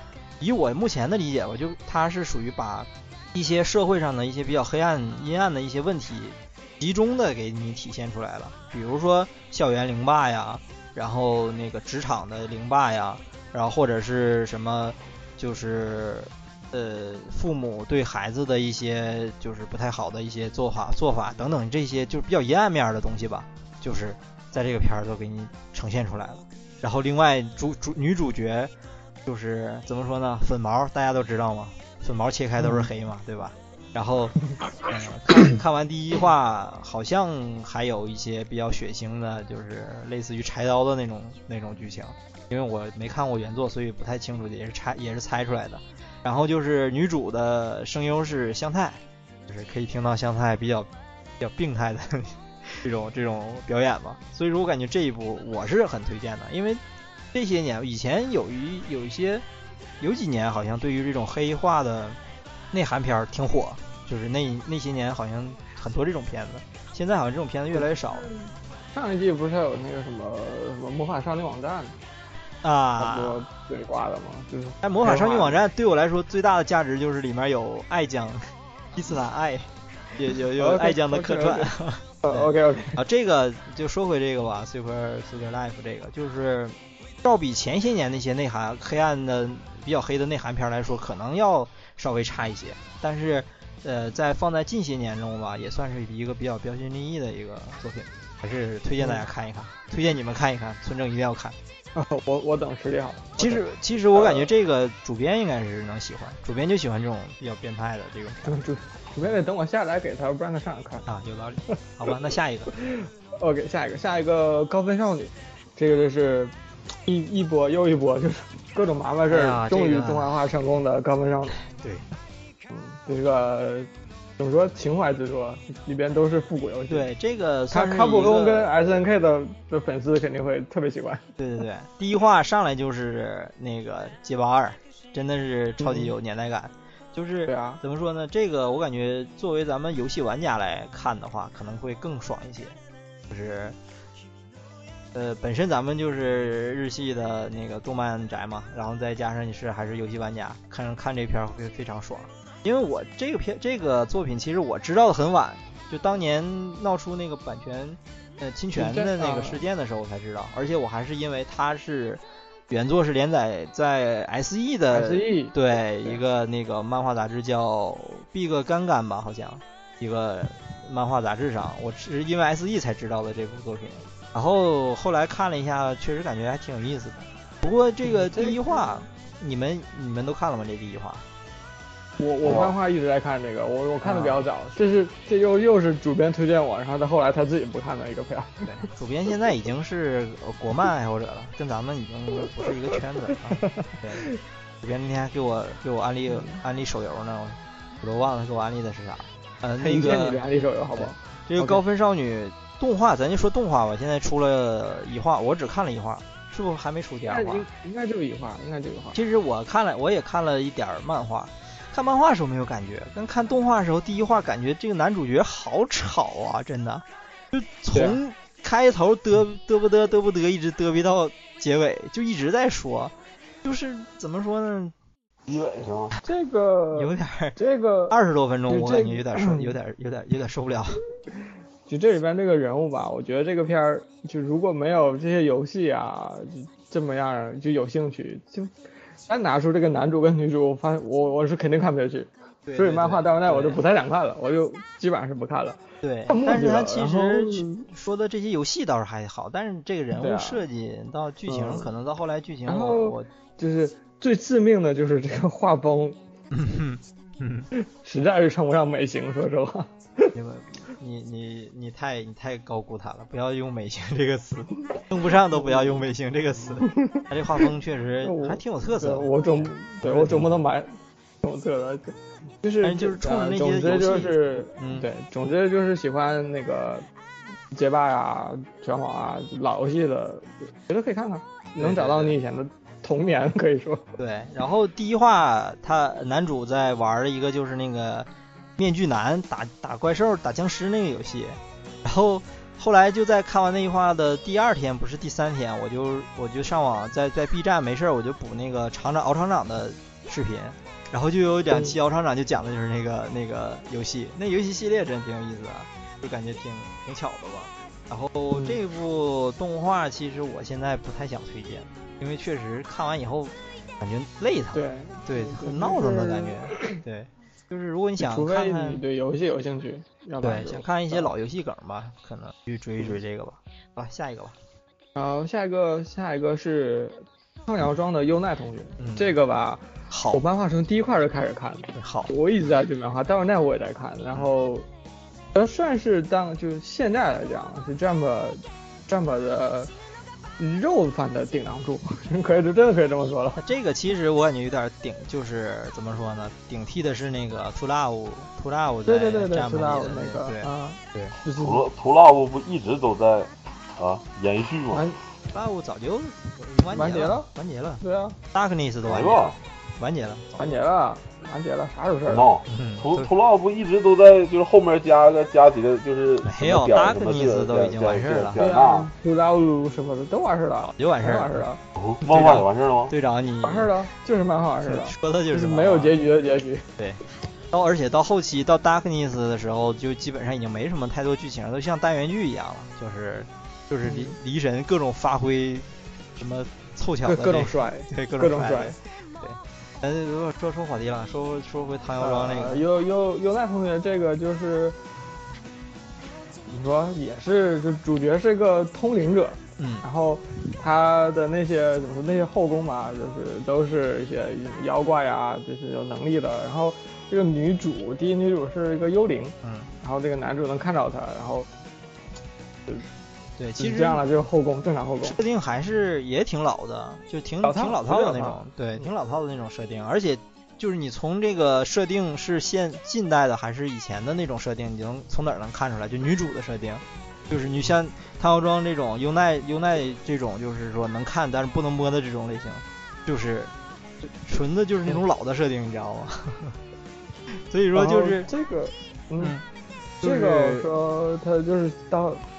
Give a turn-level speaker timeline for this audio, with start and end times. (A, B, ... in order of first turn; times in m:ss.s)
0:00.4-0:28.7 A
0:29.2-0:34.4 A
0:34.9-0:50.9 A
0:51.4-0:56.8 A
0:57.3-0:59.4 A
1:00.0-1:02.2 A
1:02.7-1:08.3 A
1:07.7-1:11.9 B
1:12.6-1:13.4 A
1:13.0-1:15.6 B
1:14.8-1:41.6 A
1:20.6-1:21.7 B
1:22.2-1:23.0 B
1:41.9-1:43.6 B
1:43.4-1:48.6 A
1:44.2-1:44.5 B
1:48.4-1:51.0 B
1:51.0-1:52.7 A
1:52.7-1:56.5 B
1:57.1-2:01.6 B
1:59.3-2:00.3 A
2:01.6-2:02.1 A
2:02.7-2:07.1 B
2:06.9-2:08.7 A
2:07.7-2:11.2 B
2:11.4-2:22.8 A
2:15.8-2:16.1 B
2:17.5-2:17.8 B
2:23.3-2:23.8 A
2:25.1-3:01.2 A
2:38.7-2:39.6 B
2:44.9-2:46.2 B
2:58.1-2:58.8 B
3:02.2-3:08.5 B
3:04.0-3:04.4 A
3:08.6-3:14.3 A
3:13.6-3:14.3 B
3:14.8-3:20.4 A
3:19.8-3:21.8 B
3:21.0-3:27.6 A
3:27.3-3:29.2 B
3:29.1-3:43.1 A
3:37.9-3:38.2 B
3:43.6-3:44.9 A
3:45.5-3:46.1 C
3:46.2-3:48.1 B
3:46.9-3:47.6 A
3:48.1-3:51.0 A
3:48.7-3:49.7 B
3:51.9-3:58.7 B
3:59.3-4:07.9 B
4:02.6-4:03.8 A
4:06.0-4:13.3 A
4:10.1-4:10.6 B
4:11.5-4:11.9 B
4:12.7-4:16.2 B
4:16.5-4:17.7 A
4:17.8-4:20.3 B
4:20.3-4:30.6 A
4:25.5-4:26.0 B
4:26.8-4:27.2 B
4:28.2-4:37.0 B
4:32.8-4:35.1 A
4:37.7-4:44.0 B
4:41.8-4:42.4 A
4:44.2-5:19.0 A
5:14.7-5:17.0 B
5:18.2-5:21.3 B
5:20.4-5:24.5 A
5:25.2-5:34.8 B
5:29.0-5:29.4 A
5:30.1-5:30.4 A
5:32.0-5:32.3 A
5:35.5-5:39.9 B
5:40.6-5:43.6 B
5:43.6-5:51.4 A
5:49.1-5:51.8 B
5:51.6-5:55.0 C
5:54.9-5:55.2 B
5:55.5-6:00.7 A
5:56.9-5:57.5 B
5:58.0-5:58.4 B
5:59.0-5:59.6 C
6:00.6-6:02.5 B
6:02.3-6:09.1 C
6:02.7-6:03.3 A
6:06.4-6:08.6 A
6:08.6-6:11.8 B
6:10.9-6:11.6 A
6:12.0-6:13.1 C
6:12.2-6:13.9 A
6:13.6-6:16.8 B
6:14.8-6:16.2 A
6:17.7-6:32.8 A
6:24.0-6:24.4 B
6:27.2-6:28.9 B
6:32.2-6:35.0 B
6:36.7-6:51.7 B
6:39.8-6:40.0 A
6:49.6-6:49.9 A
6:53.6-6:54.2 A
6:53.8-6:55.4 B
6:55.2-7:13.7 A
6:57.6-6:58.6 B
7:14.4-7:16.8 A
7:17.5-7:18.5 A
7:17.9-7:19.5 B
7:20.2-7:20.9 A
7:20.2-7:22.4 B